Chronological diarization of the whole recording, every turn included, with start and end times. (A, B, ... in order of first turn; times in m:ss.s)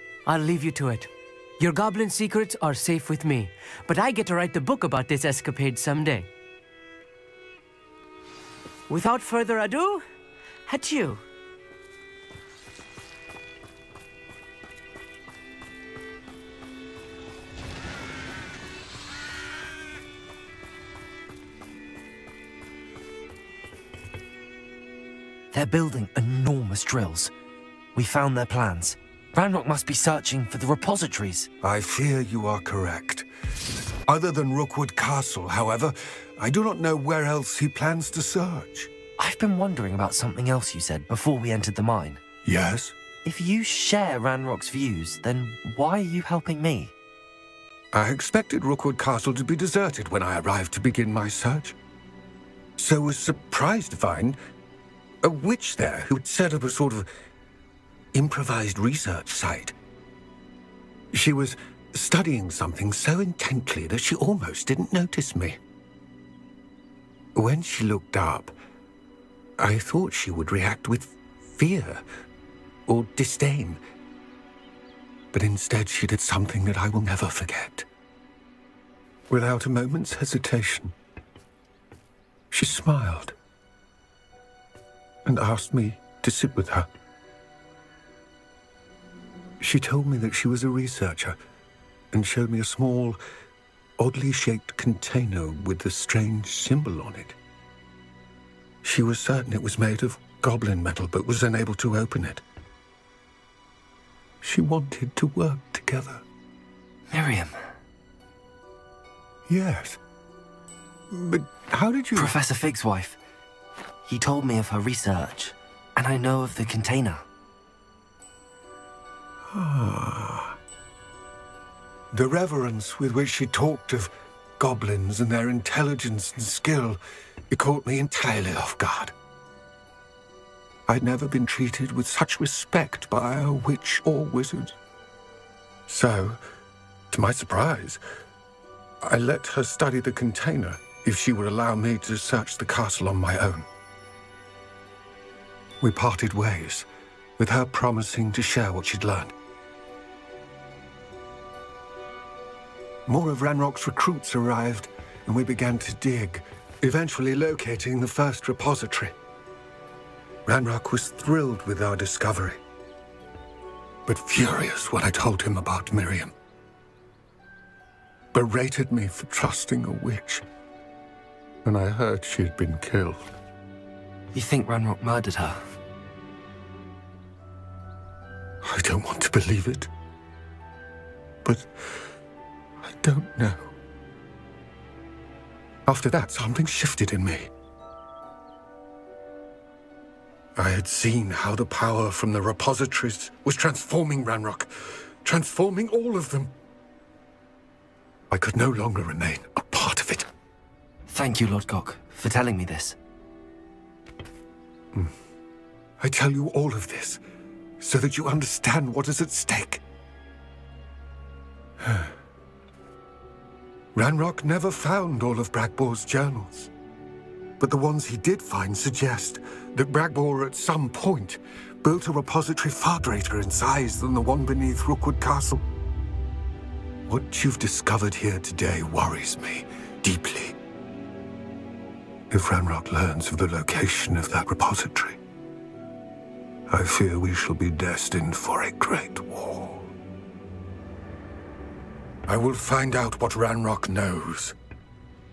0:00.2-0:06.3 A
0:08.9-0:10.0 A
0:10.7-0:11.2 A
0:25.5-0:27.3 B
0:27.9-0:31.5 B
0:31.6-0:33.3 C
0:34.1-0:38.9 C
0:39.2-0:42.2 B
0:42.4-0:43.0 C
0:43.2-0:46.9 B
0:47.9-0:51.8 C
0:52.8-0:54.4 C
0:55.2-0:57.1 C
0:58.1-0:59.7 C
1:01.1-1:05.6 C
1:07.3-1:08.6 C
1:09.6-1:12.0 C
1:12.9-1:13.8 C
1:15.3-1:17.9 C
1:19.3-1:20.9 C
1:22.5-1:23.4 C
1:25.2-1:26.9 C
1:29.6-1:31.4 C
1:32.1-1:33.2 C
1:34.0-1:37.4 C
1:38.8-1:42.4 C
1:44.4-1:46.2 C
1:47.1-1:47.6 B
1:49.5-1:50.0 C
1:51.1-1:52.4 C
1:52.1-1:53.2 B
1:54.0-1:57.2 B
1:59.5-2:00.6 C
2:02.1-2:09.1 C
2:10.9-2:14.8 C
2:15.9-2:16.4 C
2:17.1-2:18.0 C
2:19.0-2:23.7 C
2:25.8-2:26.9 C
2:27.4-2:29.3 C
2:33.1-2:39.1 C
2:40.4-2:42.6 C
2:44.0-2:46.3 C
2:48.3-2:50.4 C
2:51.6-2:53.3 C
2:54.3-2:55.6 B
2:58.6-2:59.9 C
3:01.4-3:02.0 C
3:02.8-3:03.7 C
3:05.8-3:07.5 C
3:10.6-3:16.5 C
3:18.3-3:20.3 C
3:21.1-3:23.0 B
3:26.0-3:27.2 C
3:27.8-3:29.8 C
3:31.8-3:32.2 C
3:33.9-3:36.7 C
3:37.6-3:45.6 C
3:47.1-3:50.6 C
3:52.3-3:55.2 C
3:56.7-3:59.9 C
4:02.3-4:04.6 C